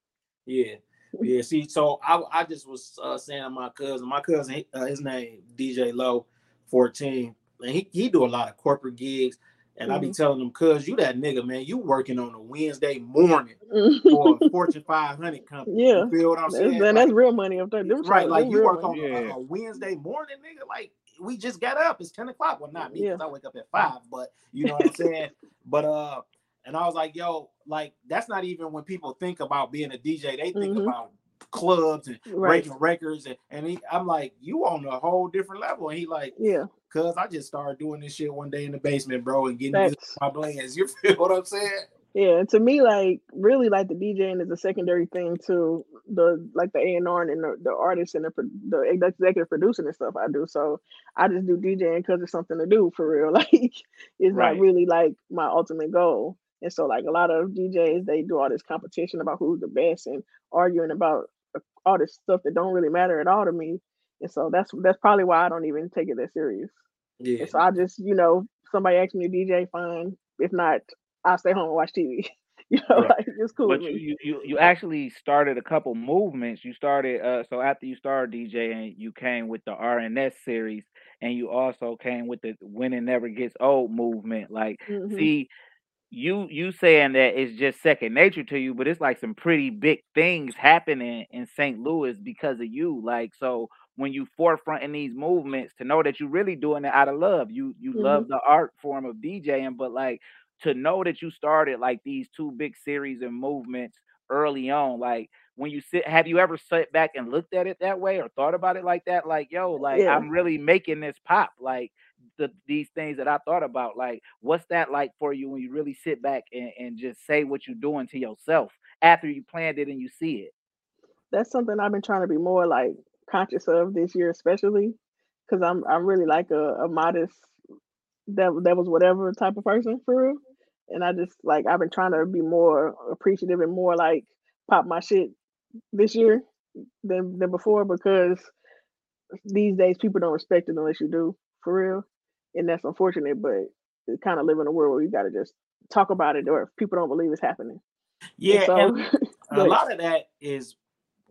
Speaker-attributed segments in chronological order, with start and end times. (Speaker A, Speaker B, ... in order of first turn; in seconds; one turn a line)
Speaker A: 0.5-13.6
Speaker B: 9.9-10.1
Speaker B: 13.7-14.5
Speaker A: 14.1-17.1
Speaker B: 15.7-18.9
Speaker A: 18.0-36.3
Speaker C: 18.9-19.3
Speaker B: 22.9-23.2
Speaker B: 24.6-25.0
Speaker B: 30.5-30.9
Speaker B: 32.3-32.7
Speaker B: 36.4-36.7
Speaker A: 36.9-41.9
Speaker B: 39.7-40.2
Speaker B: 42.1-66.7
Speaker C: 54.3-54.6
Speaker A: 67.2-67.6
Speaker B: 67.4-74.0
Speaker C: 73.7-85.5
Speaker B: 84.9-85.3
Speaker C: 86.1-120.5
Speaker B: 97.9-98.2
Speaker B: 109.9-110.2
Speaker B: 121.3-125.0
Speaker B: 125.5-127.4
Speaker B: 128.3-135.3
Speaker B: 135.9-136.4
Speaker B: 137.0-138.5
Speaker B: 139.5-147.8
Speaker A: 148.4-148.9
Speaker B: 148.5-149.8
Speaker A: 149.5-150.7